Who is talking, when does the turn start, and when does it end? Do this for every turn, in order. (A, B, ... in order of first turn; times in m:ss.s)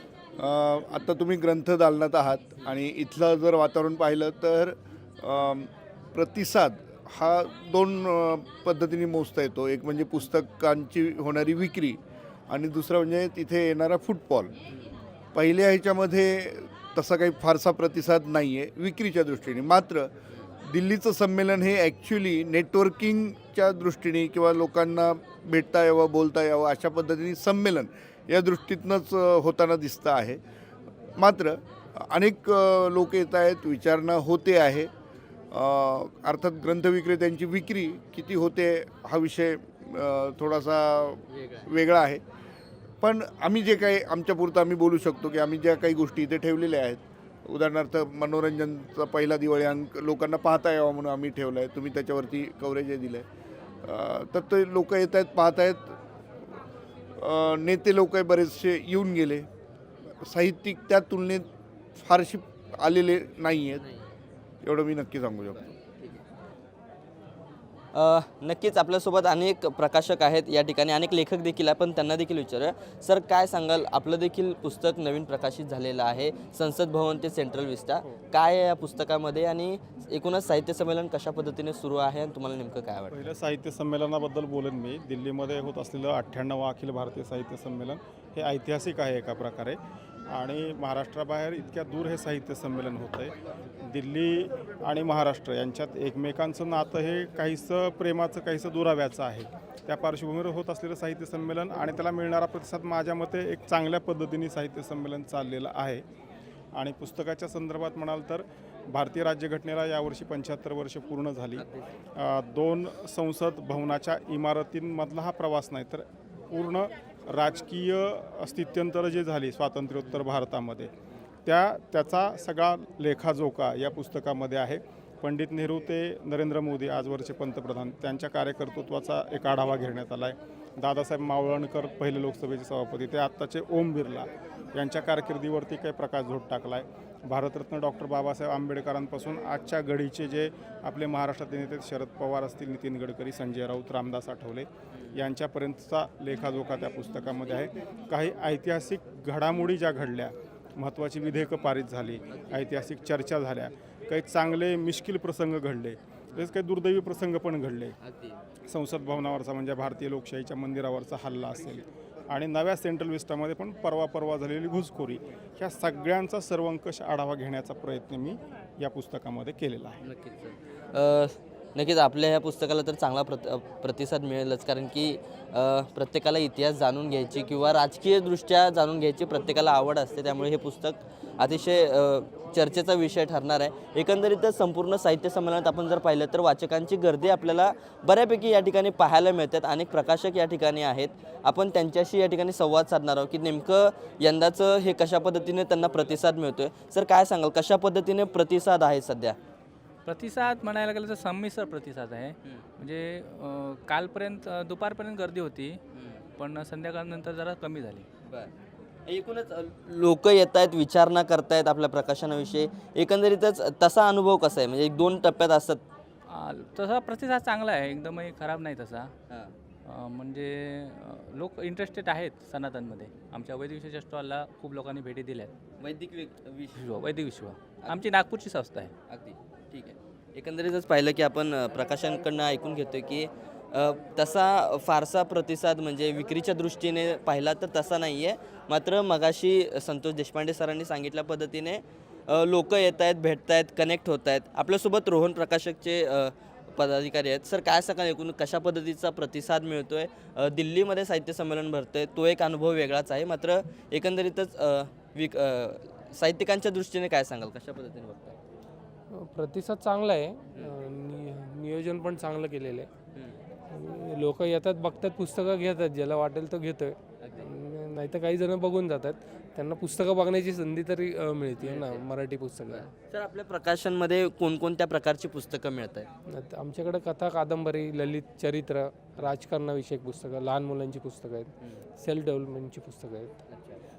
0:00.4-0:12.0 A
0:12.5-0:14.5 A
0:15.3-0:20.1 A
0:20.6-0:30.4 A
0:31.2-0:34.9 A
0:35.5-0:42.2 A
0:41.3-0:41.7 B
0:43.0-0:53.2 A
0:53.8-0:55.9 A
0:57.2-0:59.5 A
1:00.2-1:01.4 A
1:02.0-1:03.8 A
1:03.7-1:04.1 B
1:04.6-1:05.7 A
1:05.5-1:06.2 B
1:07.9-1:23.2 B
1:23.1-1:29.8 C
1:30.3-1:33.3 C
1:33.8-1:46.0 C
1:46.8-1:51.6 C
1:51.6-1:51.8 B
1:52.2-2:00.9 C
2:01.4-2:37.9 C
2:32.3-2:32.7 B
2:38.0-2:38.4 B
2:38.7-2:50.0 C
2:50.0-3:19.4 B
3:20.0-3:25.8 D
3:25.9-3:26.2 B
3:26.4-3:28.0 D
3:28.2-3:28.5 B
3:29.1-3:35.8 B
3:36.3-3:39.1 D
3:39.3-3:39.5 B
3:39.8-3:45.5 D
3:45.8-3:46.8 B
3:46.8-3:48.9 D
3:49.1-4:18.3 B
4:19.1-4:22.9 E
4:23.7-4:32.9 E
4:27.2-4:27.5 B
4:31.6-4:32.0 B
4:32.7-4:36.1 B
4:36.3-4:43.4 E
4:43.5-4:43.8 B